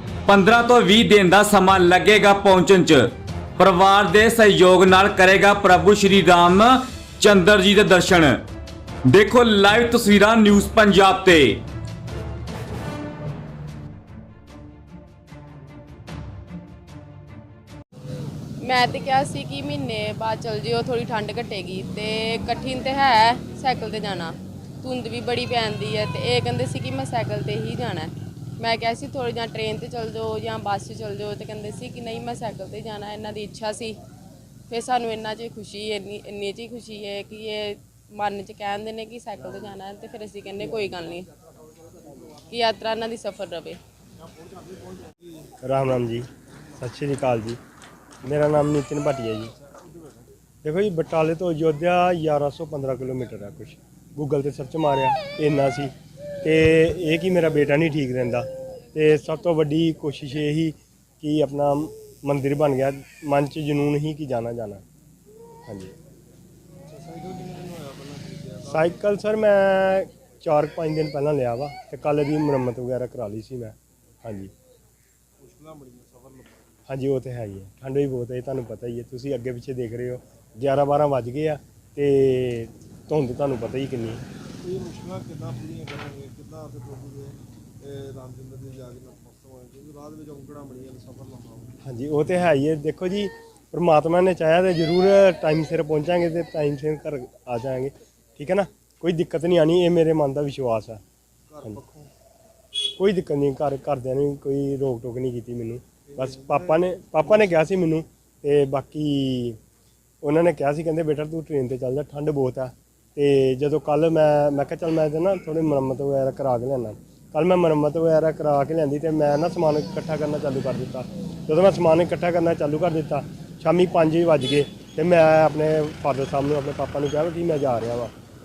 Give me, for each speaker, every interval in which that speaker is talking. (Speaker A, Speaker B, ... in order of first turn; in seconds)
Speaker A: 0.3-8.4, 9.0-11.6
Speaker B: 18.6-34.0, 34.7-41.3, 42.5-43.8
Speaker C: 44.2-45.5, 49.6-50.3, 66.9-69.0, 75.4-76.8, 84.6-91.7, 101.5-102.1, 106.1-107.6
Speaker D: 45.6-47.6, 48.2-49.5, 50.6-64.8, 65.7-65.9, 68.7-74.5, 76.9-84.2, 91.8-101.0, 102.8-109.6, 110.2-128.1